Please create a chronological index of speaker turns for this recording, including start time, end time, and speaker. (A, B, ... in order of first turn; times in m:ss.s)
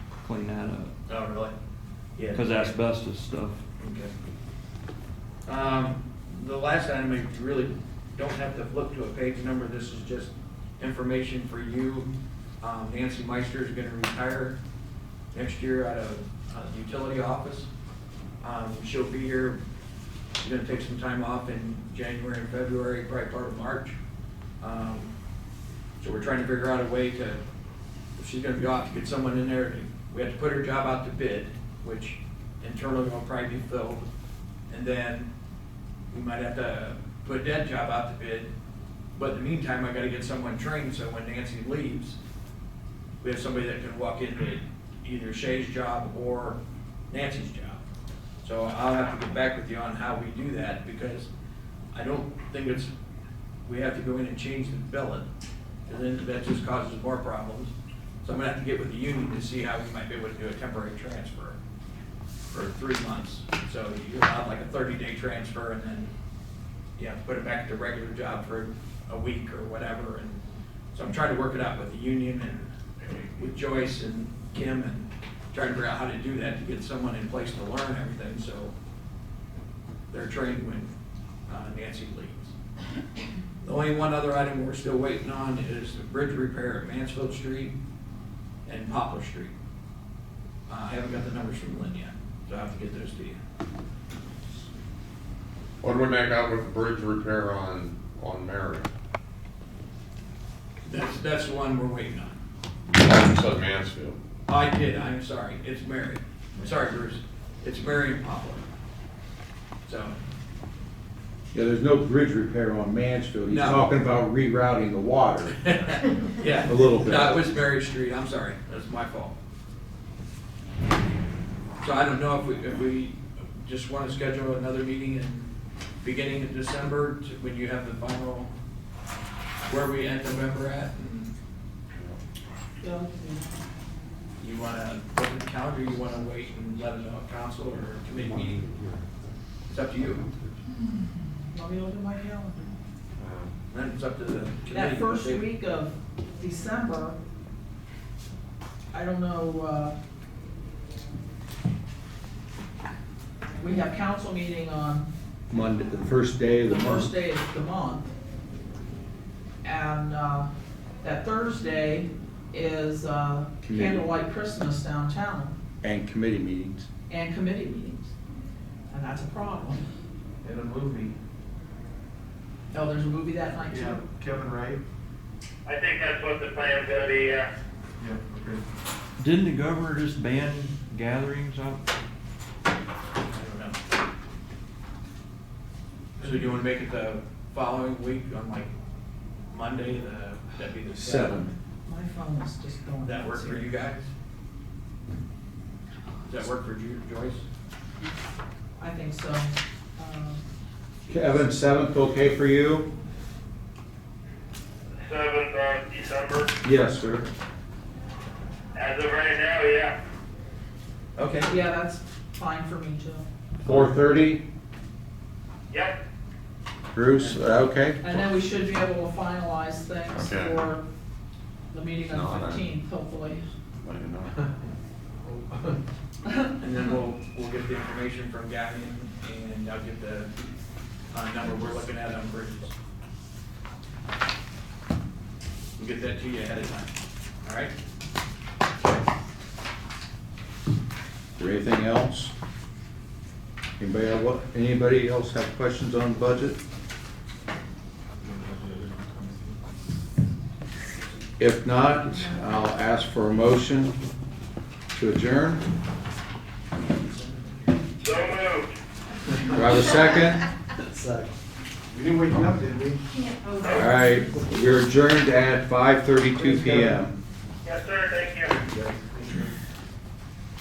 0:00.2-0:00.9 A
0:01.1-0:01.5 B
0:02.2-0:02.8 B
0:02.3-0:03.6 A
0:03.8-0:04.1 B
0:05.5-0:12.1 B
0:12.6-0:14.6 B
0:15.3-0:17.7 B
0:18.4-0:19.6 B
0:20.4-0:24.0 B
0:24.6-0:25.1 B
0:26.0-0:27.4 B
0:28.2-0:34.1 B
0:34.7-0:35.3 B
0:36.1-0:38.5 B
0:39.2-0:42.2 B
0:43.2-0:46.6 B
0:47.1-0:47.8 B
0:48.4-0:51.3 B
0:51.9-0:52.9 B
0:53.7-0:55.3 B
0:55.9-0:57.7 B
0:58.2-1:01.6 B
1:02.5-1:06.1 B
1:07.0-1:10.4 B
1:10.9-1:18.7 B
1:20.1-1:20.9 B
1:21.5-1:22.5 B
1:23.6-1:27.8 B
1:28.7-1:29.5 B
1:30.7-1:33.4 B
1:35.8-1:38.9 C
1:40.8-1:42.4 B
1:43.0-1:44.2 C
1:44.5-1:48.6 B
1:49.9-1:50.2 B
1:51.5-1:55.6 D
1:53.5-1:53.8 B
1:55.6-1:59.4 B
1:56.6-1:57.4 D
2:01.8-2:05.5 B
2:06.0-2:08.5 B
2:09.6-2:11.3 B
2:11.9-2:12.2 C
2:12.8-2:13.6 E
2:14.4-2:18.6 B
2:19.7-2:20.2 B
2:20.7-2:22.7 E
2:23.7-2:25.5 B
2:24.7-2:27.2 E
2:28.9-2:30.0 E
2:33.6-2:35.1 E
2:35.5-2:37.1 D
2:36.6-2:38.1 E
2:39.6-2:40.5 E
2:41.0-2:45.6 E
2:43.6-2:44.0 D
2:45.8-2:46.9 D
2:47.1-2:48.1 E
2:48.9-2:49.8 E
2:50.4-2:51.2 F
2:52.7-2:54.0 E
2:53.7-2:54.8 F
2:55.6-2:57.5 G
2:58.0-2:58.6 F
2:59.2-3:01.8 A
3:03.2-3:03.8 B
3:06.2-3:08.7 B
3:09.5-3:11.5 B
3:11.0-3:11.5 D
3:11.8-3:13.7 E
3:13.0-3:14.1 B
3:16.3-3:17.4 B
3:18.8-3:20.4 E
3:21.1-3:22.9 D
3:25.1-3:26.5 G
3:26.6-3:27.3 D
3:28.8-3:30.0 G
3:31.2-3:31.5 B
3:31.4-3:33.3 E
3:33.6-3:34.4 D
3:33.7-3:34.0 C
3:35.7-3:36.0 G
3:36.9-3:38.3 D
3:38.0-3:40.8 E
3:40.1-3:40.6 C
3:41.7-3:43.4 E
3:42.1-3:42.6 C
3:43.8-3:44.3 C
3:46.6-3:50.3 B
3:51.1-3:52.7 B
3:55.8-3:56.9 B
3:57.4-3:57.7 B
4:01.4-4:02.3 D
4:03.8-4:06.6 D
4:08.2-4:09.5 F
4:11.4-4:14.0 D
4:14.9-4:15.6 D
4:18.0-4:18.8 G
4:19.5-4:20.4 D
4:20.9-4:21.3 F
4:21.9-4:23.0 F
4:23.6-4:24.1 G
4:23.7-4:27.1 D
4:26.4-4:27.0 F
4:27.6-4:28.5 G
4:28.8-4:29.5 F